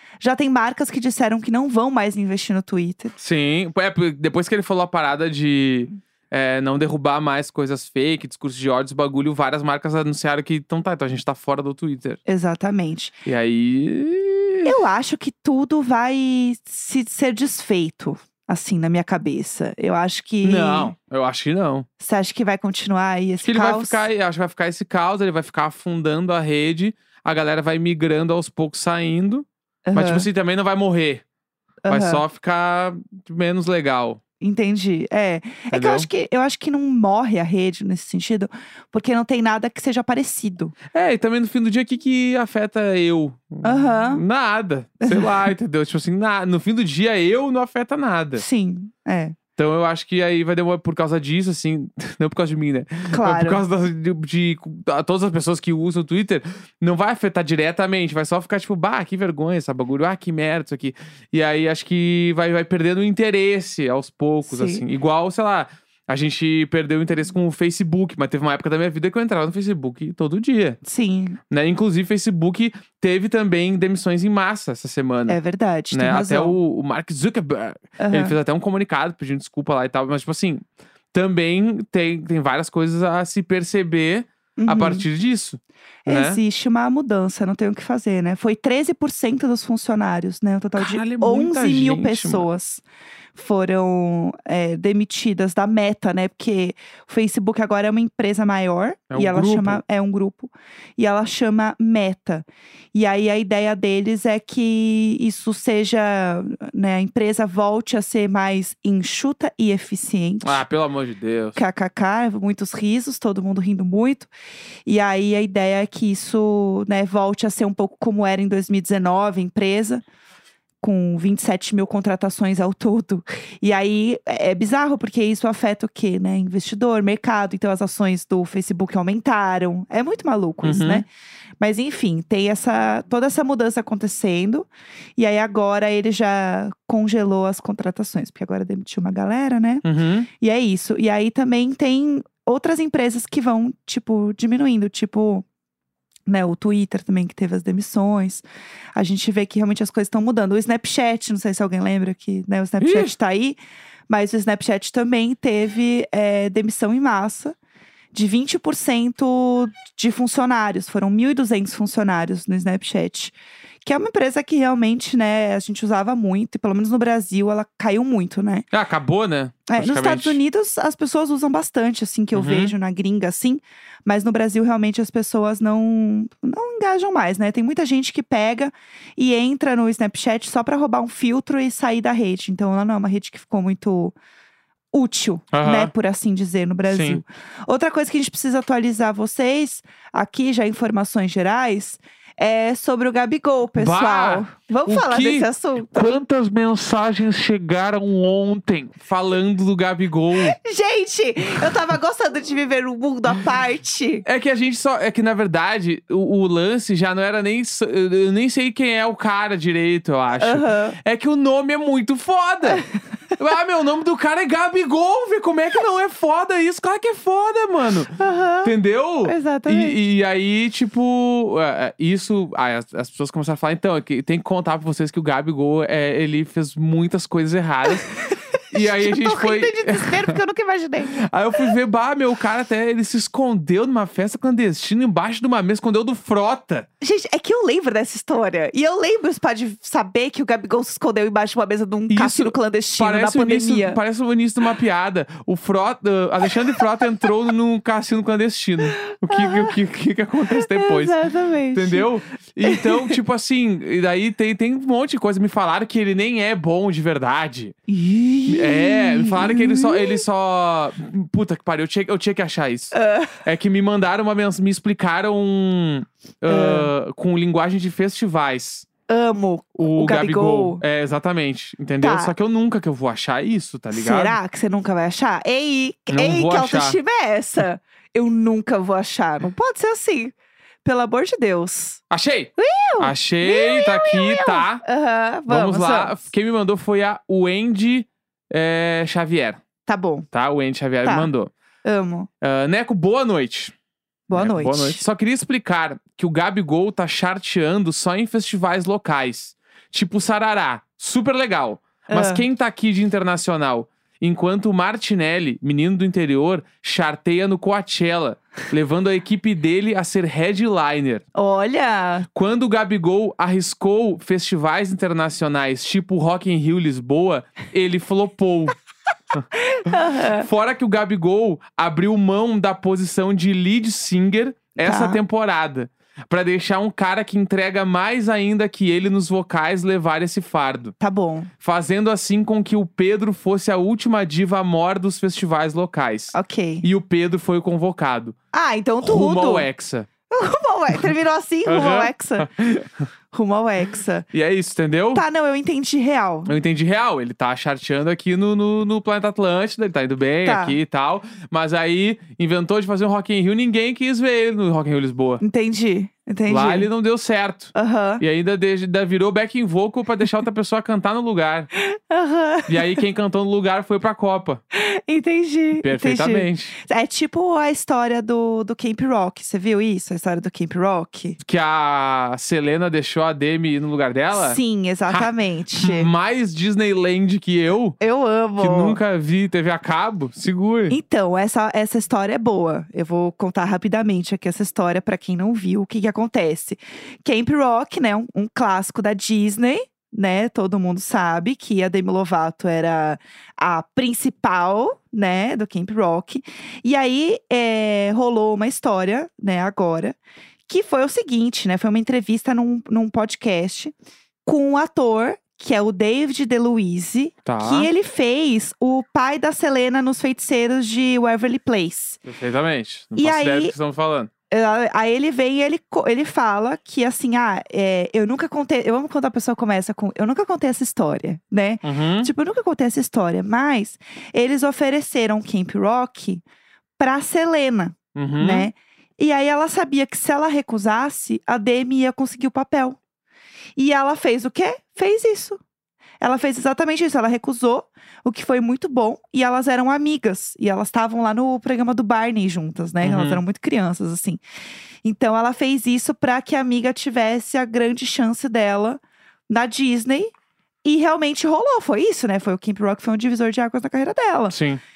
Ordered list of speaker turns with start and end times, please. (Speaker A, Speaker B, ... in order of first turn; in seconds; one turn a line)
Speaker A: 0.2-3.1
Speaker B: 3.2-12.2
Speaker A: 12.2-13.1
Speaker B: 13.2-14.8
Speaker A: 14.6-20.9
Speaker B: 20.4-21.9
Speaker A: 22.0-24.1
Speaker B: 23.4-31.2
Speaker A: 29.9-30.2
Speaker A: 31.8-32.2
Speaker B: 31.9-34.2
Speaker A: 34.4-40.7
Speaker B: 35.7-36.1
Speaker B: 40.9-48.4
Speaker A: 43.6-44.2
Speaker A: 45.0-45.4
Speaker A: 48.3-49.4
Speaker B: 49.6-70.8
Speaker A: 53.1-53.6
Speaker A: 64.5-64.8
Speaker A: 70.8-71.4
Speaker B: 71.5-75.4
Speaker A: 75.3-76.6
Speaker B: 75.9-86.4
Speaker A: 78.0-78.4
Speaker A: 84.6-85.0
Speaker A: 86.0-92.8
Speaker B: 90.8-92.5
Speaker A: 93.3-110.6
Speaker B: 99.1-99.8
Speaker B: 110.4-111.6
Speaker A: 111.5-114.3
Speaker A: 114.8-120.0
Speaker A: 120.8-131.1
Speaker B: 130.6-131.0
Speaker A: 131.6-139.8
Speaker B: 139.8-140.3
Speaker A: 140.4-145.4
Speaker A: 146.3-157.6
Speaker B: 152.8-153.1
Speaker A: 158.1-168.7
Speaker B: 168.7-170.4
Speaker A: 169.7-184.1
Speaker B: 172.3-172.7
Speaker A: 184.9-196.2
Speaker B: 185.5-185.9
Speaker B: 186.9-187.2
Speaker B: 193.8-200.6
Speaker A: 200.4-204.2
Speaker B: 204.2-212.8
Speaker A: 210.4-211.0
Speaker B: 213.4-228.1
Speaker A: 218.2-218.7
Speaker A: 219.2-220.0
Speaker A: 227.9-231.7
Speaker B: 228.7-230.4
Speaker B: 231.1-236.9
Speaker A: 237.0-244.0
Speaker B: 242.1-251.2
Speaker A: 246.8-247.3
Speaker A: 249.0-249.8
Speaker A: 250.5-252.1
Speaker B: 251.7-257.7
Speaker A: 252.6-253.2
Speaker A: 257.9-260.2
Speaker B: 258.5-268.9
Speaker A: 262.9-263.4
Speaker A: 266.5-266.9
Speaker A: 269.1-270.8
Speaker B: 269.8-274.4
Speaker A: 272.0-272.3
Speaker A: 273.9-282.0
Speaker B: 276.1-277.0
Speaker B: 282.1-284.8
Speaker A: 282.6-286.1
Speaker B: 285.5-289.6
Speaker A: 289.9-290.3
Speaker B: 290.3-291.5
Speaker A: 291.0-291.3
Speaker A: 291.8-292.3
Speaker B: 292.4-293.7
Speaker A: 294.3-295.0
Speaker B: 294.3-311.2
Speaker A: 302.1-302.4
Speaker A: 311.3-312.3
Speaker B: 312.3-318.8
Speaker A: 319.5-320.5
Speaker B: 320.3-330.9
Speaker A: 324.8-325.2
Speaker A: 331.0-331.5
Speaker B: 331.6-338.3
Speaker A: 336.3-336.9
Speaker A: 338.5-339.7
Speaker B: 339.0-340.1
Speaker A: 340.3-342.5
Speaker B: 341.6-343.1
Speaker A: 343.3-344.3
Speaker B: 344.3-345.2
Speaker A: 345.1-346.5
Speaker B: 346.4-355.4
Speaker A: 350.4-350.8
Speaker A: 355.4-356.9
Speaker B: 356.5-361.7
Speaker A: 357.7-358.2
Speaker A: 361.7-363.0
Speaker B: 362.7-364.6
Speaker A: 364.7-371.4
Speaker B: 365.8-366.7
Speaker B: 371.4-378.0
Speaker A: 374.3-376.1
Speaker A: 378.0-379.0
Speaker B: 378.6-381.0
Speaker A: 380.9-403.9
Speaker A: 404.4-412.2
Speaker B: 407.4-407.9
Speaker B: 412.2-414.3
Speaker A: 413.1-413.7
Speaker A: 414.5-426.4
Speaker B: 421.8-422.3
Speaker A: 427.0-433.0
Speaker B: 428.1-428.7
Speaker A: 433.8-435.6
Speaker A: 436.2-444.4
Speaker B: 443.0-443.4
Speaker A: 445.0-450.3
Speaker A: 450.8-454.5
Speaker B: 454.5-454.8